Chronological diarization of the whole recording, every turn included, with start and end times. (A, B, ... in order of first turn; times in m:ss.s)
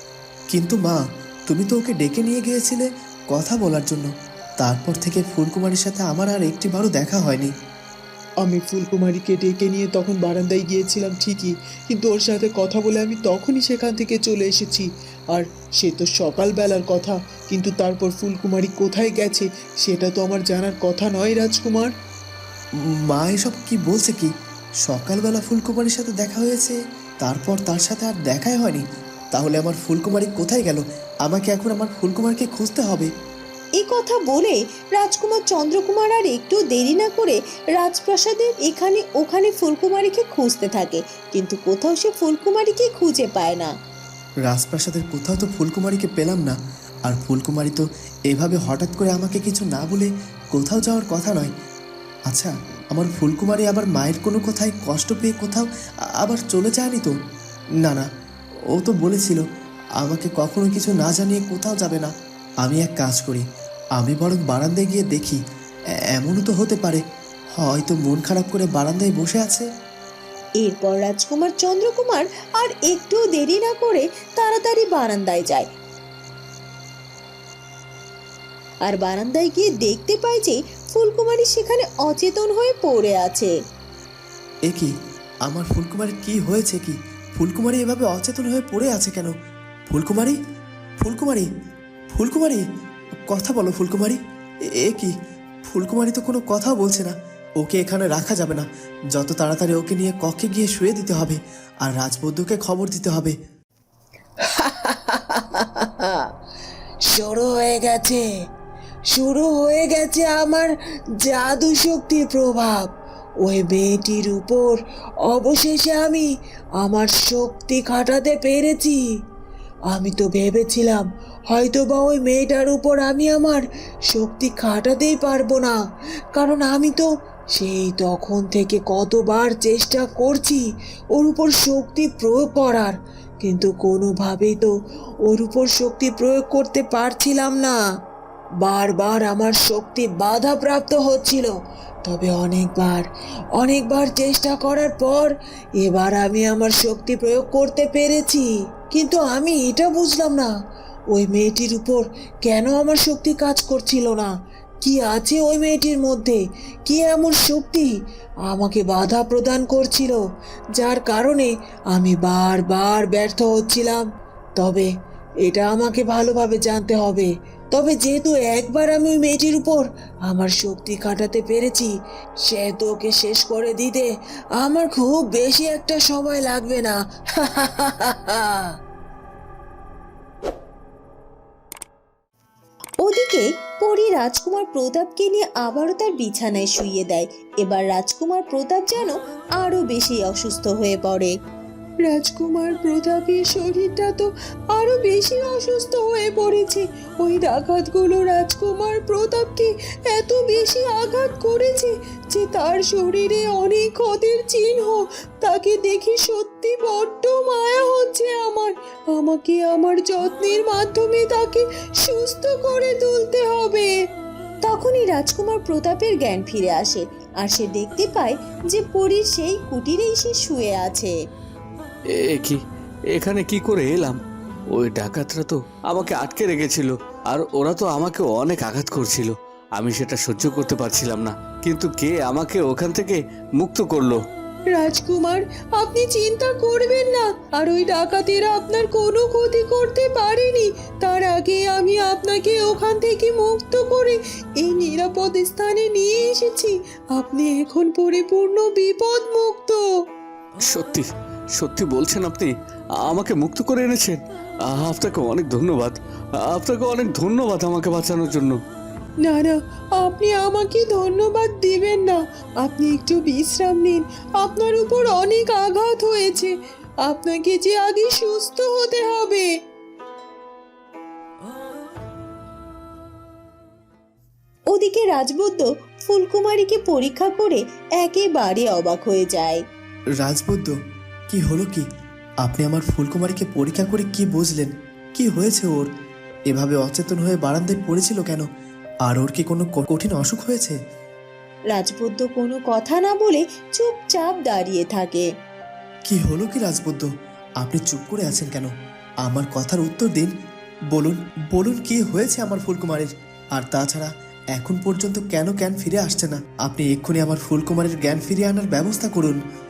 0:00.5-0:07.5 A
0:08.4-0:21.9 B
0:23.1-0:24.3 A
0:24.8-0:33.1 A
0:33.8-0:43.7 C
0:44.4-0:51.5 A
0:52.3-0:55.7 A
0:56.2-0:57.1 A
0:58.7-0:59.4 A
1:00.0-1:02.1 A
1:02.6-1:03.4 A
1:04.0-1:05.4 A
1:06.2-1:07.0 A
1:07.6-1:09.7 A
1:10.6-1:15.7 C
1:18.8-1:23.5 C
1:24.7-1:24.9 A
1:25.5-1:29.3 A
1:29.9-1:30.4 A
1:31.0-1:31.5 A
1:32.1-1:32.6 A
1:33.3-1:34.2 A
1:34.8-1:35.1 A
1:35.6-1:43.3 A
1:44.6-1:46.1 D
1:47.1-1:48.2 D
1:49.1-1:52.9 D
1:53.4-1:56.2 D
1:56.8-1:59.0 D
1:59.9-2:05.8 D
2:06.3-2:10.6 D
2:11.1-2:14.7 D
2:15.2-2:17.8 D
2:18.6-2:21.5 D
2:22.0-2:30.5 D
2:31.1-2:37.9 D
2:38.5-2:40.2 D
2:40.7-2:44.0 D
2:44.6-2:44.9 D
2:45.4-2:51.9 D
2:52.4-2:58.6 D
3:03.0-3:11.3 C
3:13.3-3:14.2 B
3:14.8-3:15.3 B
3:15.6-3:16.7 D
3:17.4-3:19.6 D
3:20.2-3:24.8 D
3:25.4-3:31.3 D
3:32.1-3:33.9 D
3:34.6-3:41.1 C
3:43.2-3:44.2 E
3:44.8-3:51.2 E
3:54.8-4:00.5 D
4:01.0-4:04.2 D
4:04.7-4:09.8 D
4:10.7-4:11.0 E
4:11.6-4:12.5 E
4:13.1-4:14.2 E
4:14.7-4:15.9 E
4:16.5-4:18.6 E
4:19.2-4:26.5 D
4:27.0-4:29.4 D
4:34.7-4:39.6 C
4:40.2-4:40.7 A
4:41.3-4:41.8 A
4:42.4-4:45.9 A
4:46.5-4:48.4 A
4:49.0-4:50.8 A
4:51.7-4:55.2 C
4:56.1-4:57.1 A
4:57.6-4:58.7 A
4:59.2-5:00.3 A
5:00.9-5:09.4 A